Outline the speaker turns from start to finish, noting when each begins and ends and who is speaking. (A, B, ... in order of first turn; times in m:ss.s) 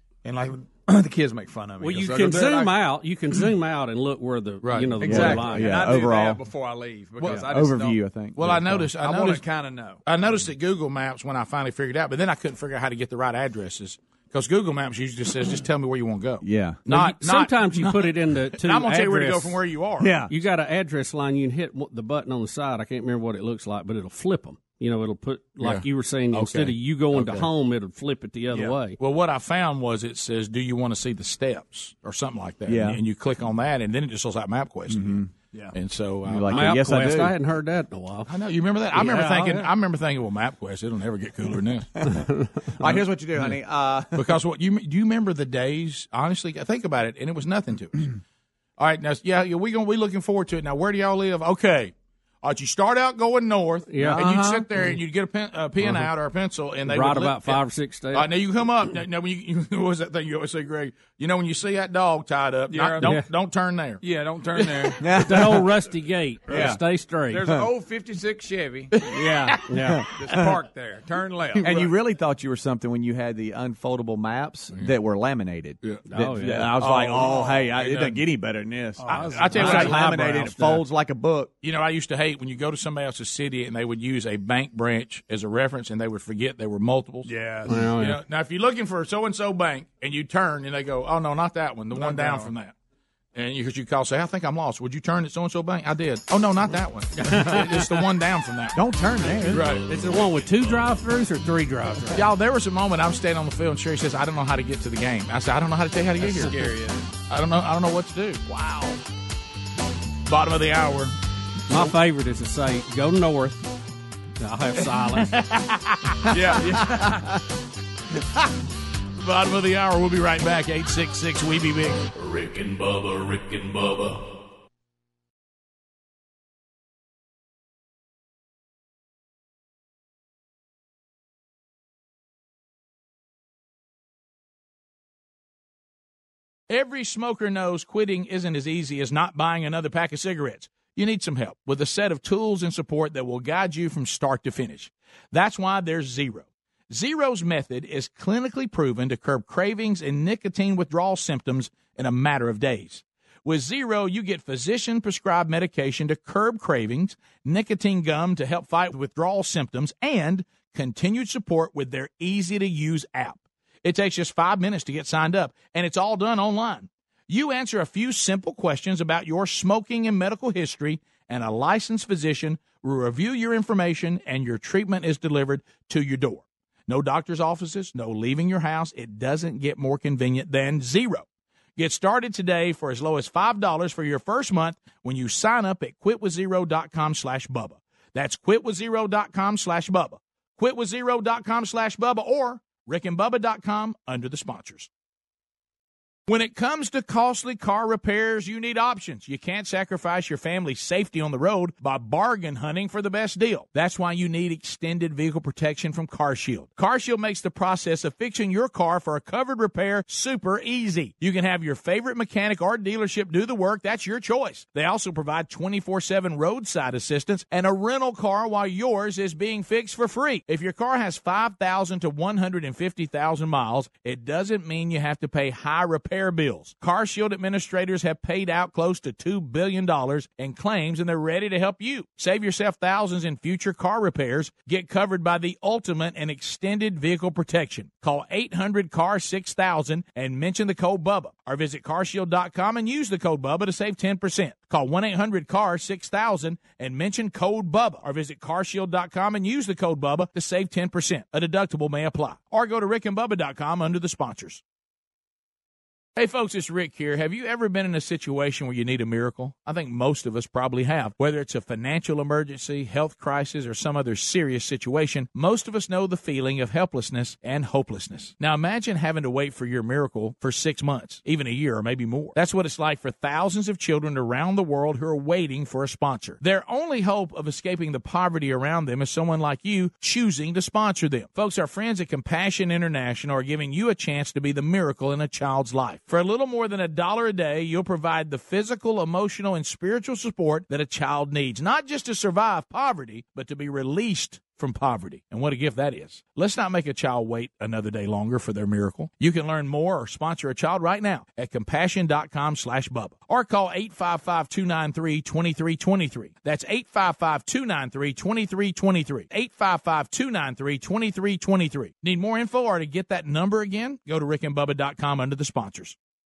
0:00.2-0:02.8 A
0:01.8-0:05.8 B
0:04.6-0:08.0 A
0:05.0-0:06.4 C
0:07.2-0:08.9 C
0:08.4-0:09.4 D
0:08.7-0:10.0 A
0:10.0-0:20.1 D
0:16.4-0:16.8 C
0:16.9-0:19.6 B
0:20.0-0:20.3 C
0:20.3-0:29.0 B
0:25.6-0:26.7 D
0:27.2-0:27.4 C
0:29.0-0:36.6 D
0:32.7-0:33.0 C
0:34.9-0:35.3 C
0:36.2-0:37.4 C
0:36.5-0:38.3 B
0:38.3-0:41.9 D
0:38.9-0:39.7 B
0:42.0-0:43.0 B
0:42.8-0:44.3 C
0:44.1-0:48.1 D
0:48.8-0:57.6 D
0:53.9-0:54.7 B
0:56.9-0:58.3 B
0:58.1-1:05.0 D
1:02.7-1:03.2 A
1:03.0-1:03.3 B
1:04.0-1:05.2 A
1:05.0-1:05.7 C
1:05.2-1:07.4 B
1:06.5-1:06.8 C
1:07.3-1:09.5 A
1:07.4-1:07.7 C
1:09.0-1:10.6 C
1:09.7-1:10.0 B
1:10.2-1:12.0 A
1:11.6-1:21.5 C
1:16.1-1:16.8 B
1:16.5-1:18.2 D
1:19.0-1:20.0 A
1:19.1-1:20.8 B
1:19.2-1:20.2 D
1:21.6-1:27.3 D
1:27.2-1:27.8 A
1:27.7-1:28.2 B
1:28.0-1:32.7 D
1:31.9-1:32.5 A
1:33.3-1:38.8 D
1:37.2-1:38.0 B
1:38.8-1:39.7 C
1:39.2-1:42.3 B
1:39.4-1:39.9 D
1:42.1-1:46.7 D
1:46.2-1:47.0 A
1:47.3-1:49.0 D
1:50.3-1:51.1 D
1:51.7-1:53.7 B
1:54.4-1:55.3 B
1:55.1-1:56.4 D
1:56.3-1:57.3 A
1:59.2-2:02.1 D
2:02.1-2:04.4 E
2:16.7-3:01.2 D
3:01.8-3:14.9 D
3:16.3-4:14.6 D
4:16.2-5:16.0 D